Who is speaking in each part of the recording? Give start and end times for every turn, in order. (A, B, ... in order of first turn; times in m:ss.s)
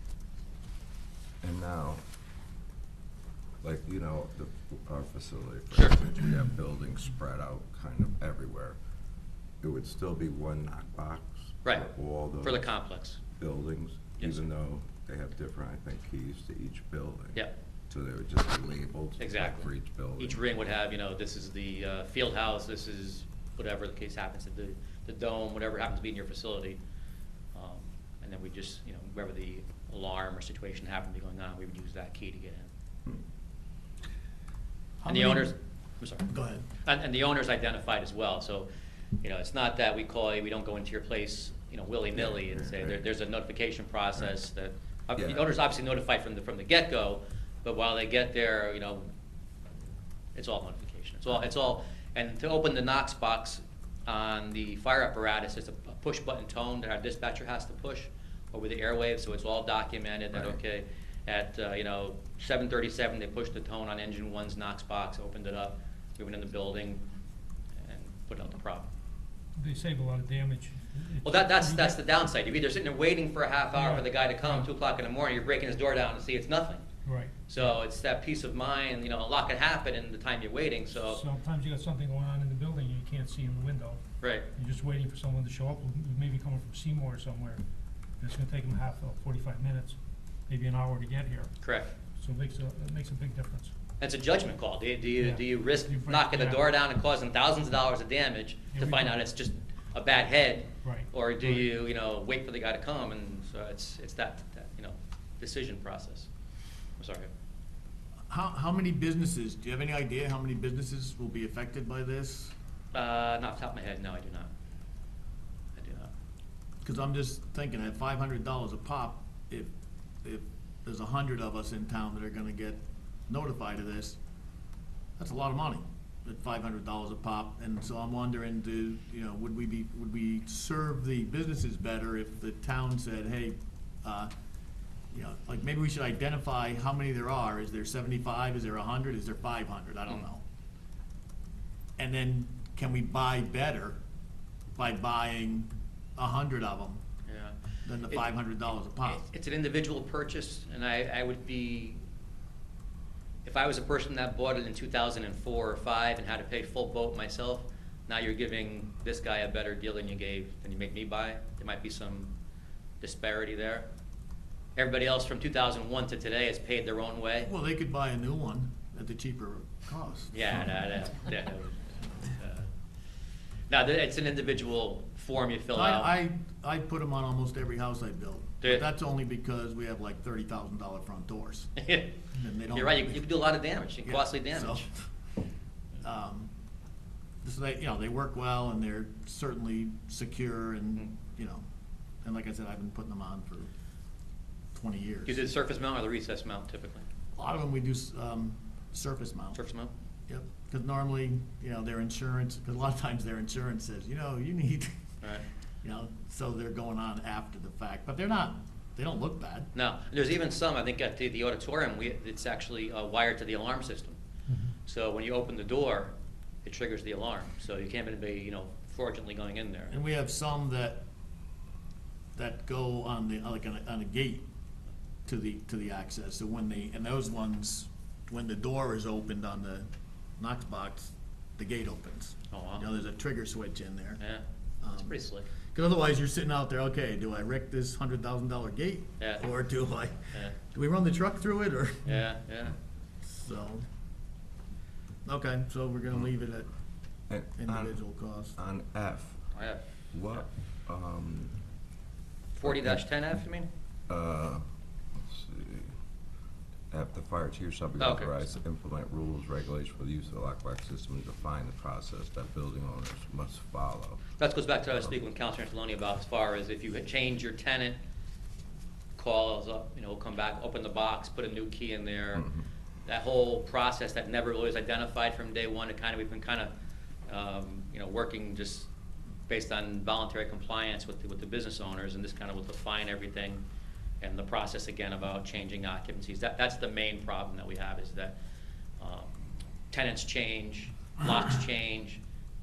0:01.4-0:02.0 A
0:03.6-0:08.8 A
0:05.7-0:06.0 B
0:09.6-0:12.6 A
0:12.4-0:13.2 B
0:13.3-0:20.4 A
0:19.2-0:26.8 B
0:27.5-0:32.7 B
0:35.0-0:35.5 C
0:35.0-0:38.7 B
0:36.3-0:36.6 C
0:39.2-0:49.1 B
0:42.2-0:43.0 A
0:45.2-0:45.5 A
0:50.3-1:07.1 B
1:07.8-1:08.9 B
1:09.6-1:12.0 D
1:11.2-1:16.8 B
1:13.8-1:14.7 D
1:17.0-1:17.7 D
1:17.4-1:21.2 B
1:21.0-1:24.0 D
1:24.2-1:24.5 B
1:24.5-1:27.6 D
1:28.2-1:31.5 D
1:31.6-1:31.9 B
1:32.2-1:33.7 D
1:34.0-1:46.3 B
1:35.2-1:36.6 D
1:38.7-1:39.1 D
1:40.8-1:41.6 D
1:47.0-1:47.3 B
1:48.3-1:52.5 C
1:52.9-1:54.5 B
1:55.8-1:56.1 B
1:56.8-1:59.7 C
2:00.2-2:04.2 C
2:05.2-2:14.3 C
2:15.1-2:20.4 C
2:22.0-2:24.0 C
2:24.8-2:27.0 C
2:27.3-2:27.6 B
2:27.8-2:29.2 C
2:29.0-2:32.0 B
2:33.4-2:42.3 B
2:43.0-2:43.9 B
2:44.8-2:47.5 B
2:47.4-2:50.4 C
2:50.3-2:52.7 B
2:53.7-2:56.1 B
2:55.7-3:01.7 C
3:01.8-3:02.2 B
3:02.3-3:03.2 C
3:02.7-3:04.9 B
3:04.0-3:04.9 C
3:06.0-3:06.5 C
3:07.4-3:11.6 C
3:12.2-3:13.7 C
3:14.7-3:15.4 C
3:15.2-3:17.1 B
3:17.3-3:19.6 C
3:19.5-3:19.9 B
3:20.3-3:24.9 C
3:25.8-3:29.7 C
3:29.7-3:34.2 B
3:34.8-3:36.1 B
3:36.6-3:39.9 B
3:39.9-3:41.0 C
3:42.4-3:44.4 C
3:45.2-3:49.9 C
3:50.4-3:54.2 C
3:52.5-3:52.9 B
3:54.2-3:55.5 B
3:54.8-3:55.2 C
3:55.7-4:02.1 C
4:02.0-4:02.7 B
4:03.2-4:03.8 C
4:05.2-4:06.7 C
4:07.3-4:08.0 A
4:07.6-4:08.6 C
4:08.6-4:09.4 A
4:09.5-4:10.5 B
4:10.1-4:11.6 A
4:12.5-4:13.7 B
4:12.6-4:13.0 A
4:14.1-4:14.6 A
4:15.2-4:15.9 A
4:16.9-4:24.2 A
4:18.0-4:18.4 B
4:24.4-4:28.0 B
4:29.2-4:36.7 B
4:37.3-4:38.9 B
4:39.5-4:43.6 B
4:44.2-4:48.4 B
4:49.0-4:52.2 B